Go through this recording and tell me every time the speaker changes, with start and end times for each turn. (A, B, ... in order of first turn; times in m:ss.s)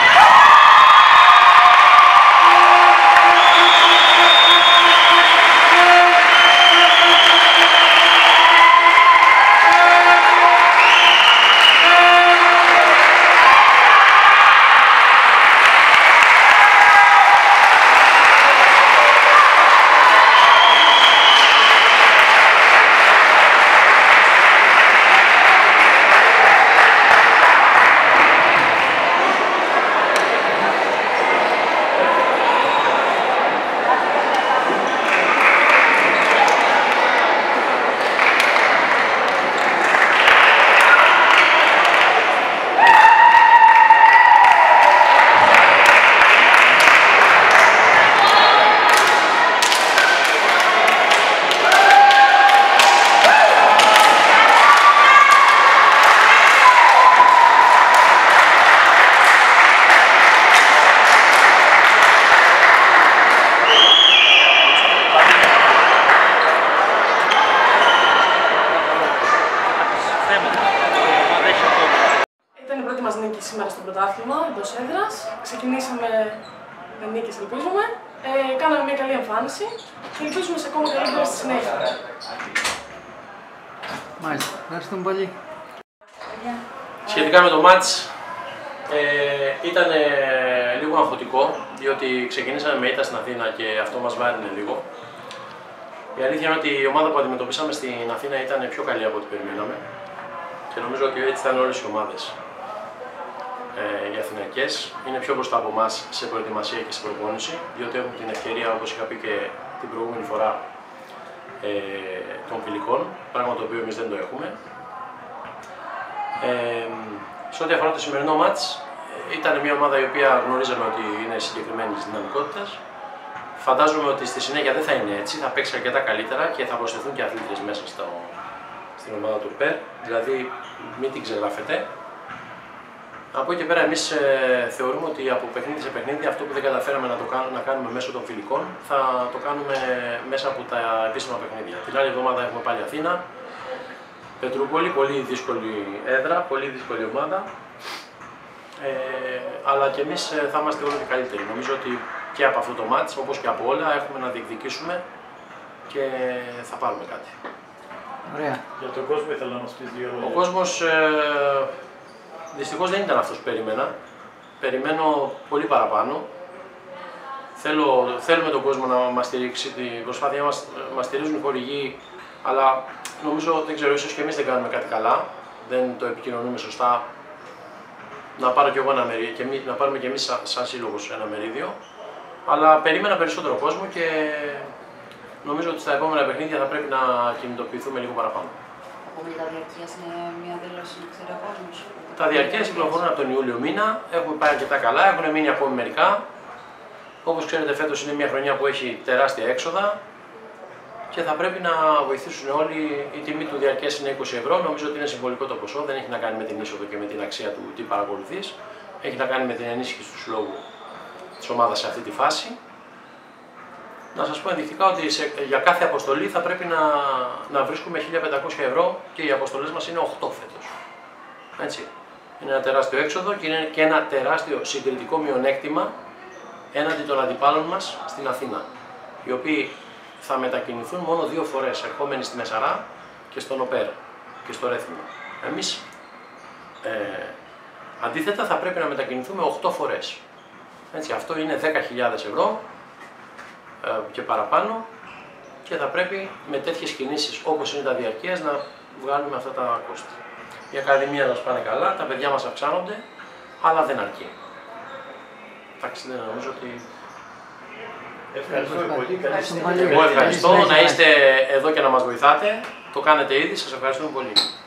1:12.7-1:16.3 A
1:17.0-1:21.7 A
1:24.2-1:25.3 B
1:27.0-1:28.1 C
1:28.9-1:34.9 C
1:36.1-1:39.8 C
1:40.7-1:42.4 C
1:43.7-1:50.6 C
1:51.6-1:54.6 C
1:56.4-2:02.8 C
2:03.6-2:08.4 C
2:09.0-2:11.9 C
2:13.3-2:23.2 C
2:24.4-2:27.5 C
2:28.8-2:35.0 C
2:35.9-2:37.3 C
2:38.3-2:38.6 B
2:38.8-2:40.4 D
2:40.2-2:41.7 C
2:42.5-2:43.9 C
2:44.6-2:46.3 C
2:47.5-2:57.1 C
2:58.4-3:01.8 C
3:02.4-3:04.7 C
3:05.4-3:08.6 C
3:09.0-3:13.0 E
3:12.2-3:16.2 C
3:17.2-3:20.0 C
3:21.1-3:30.6 C
3:31.4-3:32.6 C
3:34.1-3:40.7 C
3:41.6-3:45.9 C
3:46.7-3:48.7 C
3:49.2-3:55.8 C
3:56.8-3:57.4 C
3:58.0-4:00.2 C
4:00.9-4:02.6 C
4:03.8-4:04.9 C
4:05.6-4:10.2 C
4:10.7-4:13.0 C
4:13.6-4:14.3 C
4:15.8-4:16.8 C
4:18.3-4:20.5 D
4:18.5-4:21.0 B
4:19.8-4:24.5 C